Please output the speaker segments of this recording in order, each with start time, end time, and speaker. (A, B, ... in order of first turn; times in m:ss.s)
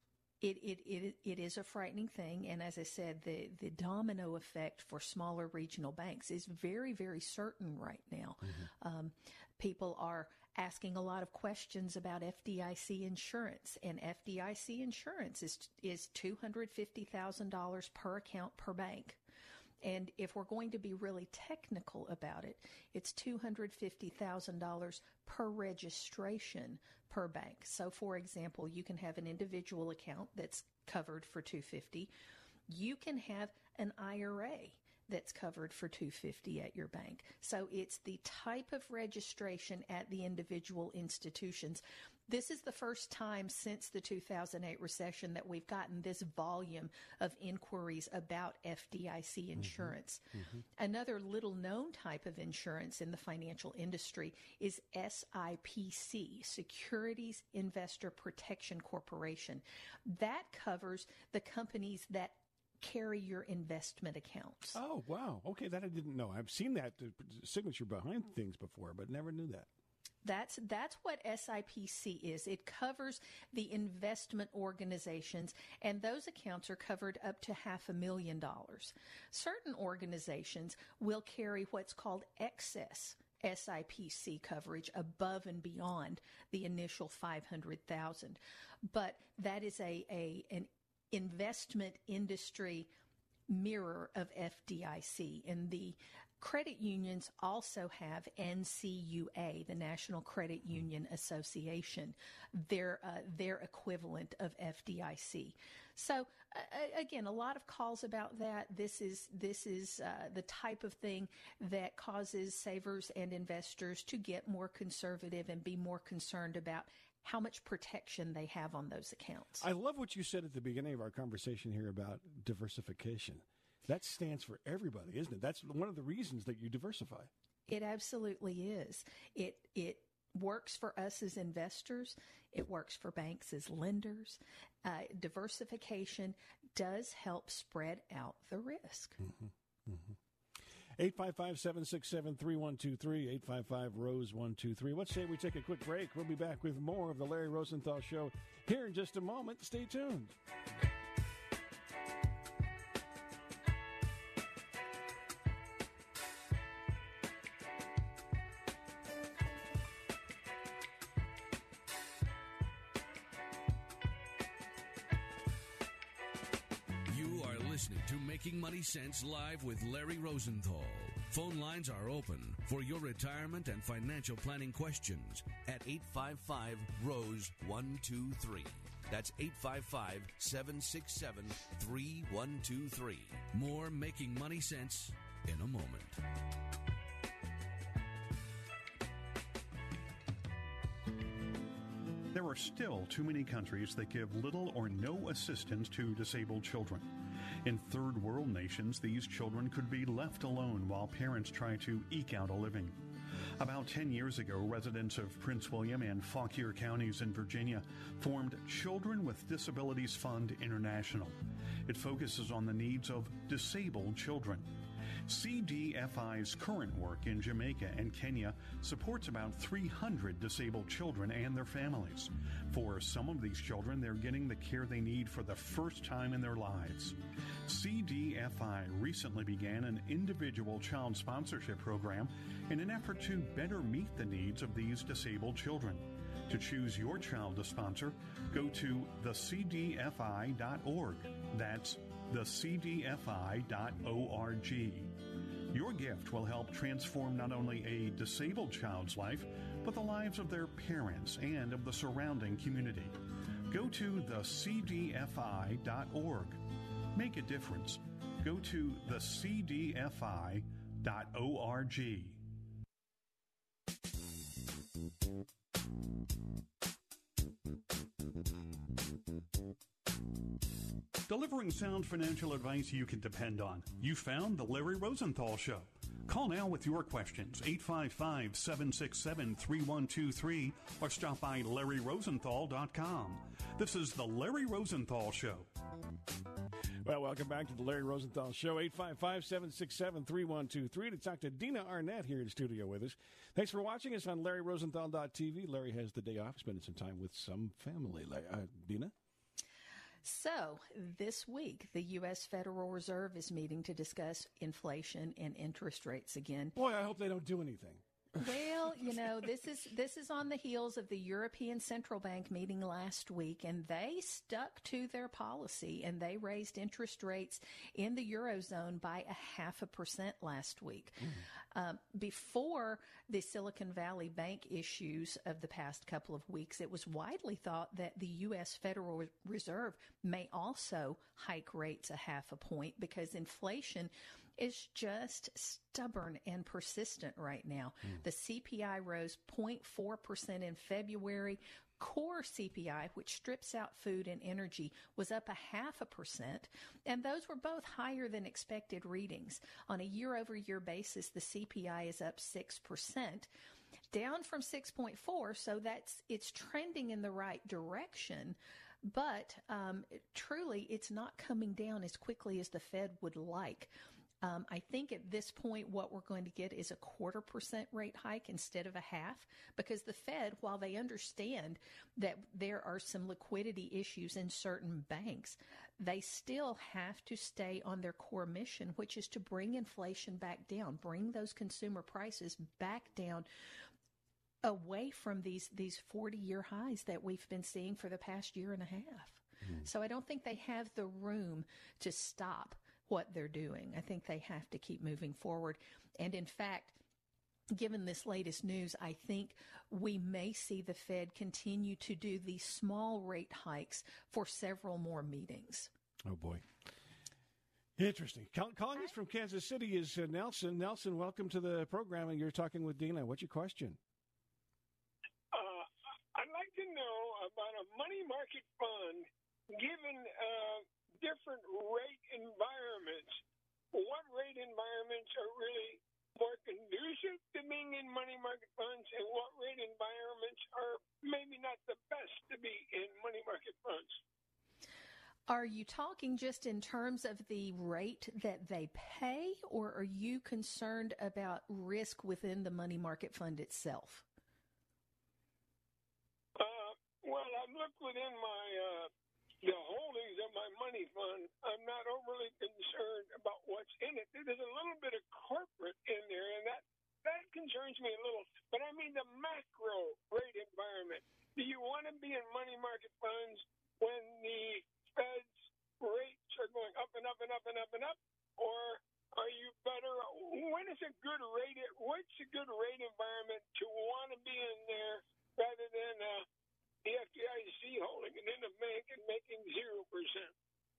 0:00.4-0:19.2 A
0:19.8-0:32.1 A
0:32.7-0:50.2 A
0:49.6-0:50.6 B
0:50.8-1:04.8 A
1:04.7-1:09.7 B
1:10.2-1:32.9 A
1:33.5-1:59.7 A
1:59.6-2:07.3 B
2:07.7-2:19.2 A
2:19.2-2:20.2 B
2:21.0-2:30.4 B
2:47.1-3:06.2 C
3:12.3-3:23.1 D
3:23.6-3:34.7 D
3:35.3-4:05.2 D
4:05.7-4:13.2 D
4:13.7-4:16.6 D
4:17.1-4:22.4 D
4:31.3-4:45.7 D
4:47.0-4:59.1 B
5:00.2-5:06.8 A
5:06.8-5:08.5 B
5:08.4-5:53.5 A
5:54.1-6:03.9 A
6:04.4-6:23.5 A
6:24.6-6:37.0 A
6:37.7-6:45.9 A
6:46.3-6:46.6 B
6:48.0-6:54.0 B
6:55.5-7:03.4 E
7:03.9-7:14.2 E
7:15.5-7:24.2 A
7:26.6-7:29.1 E
7:29.6-7:56.4 E
7:57.0-8:00.5 E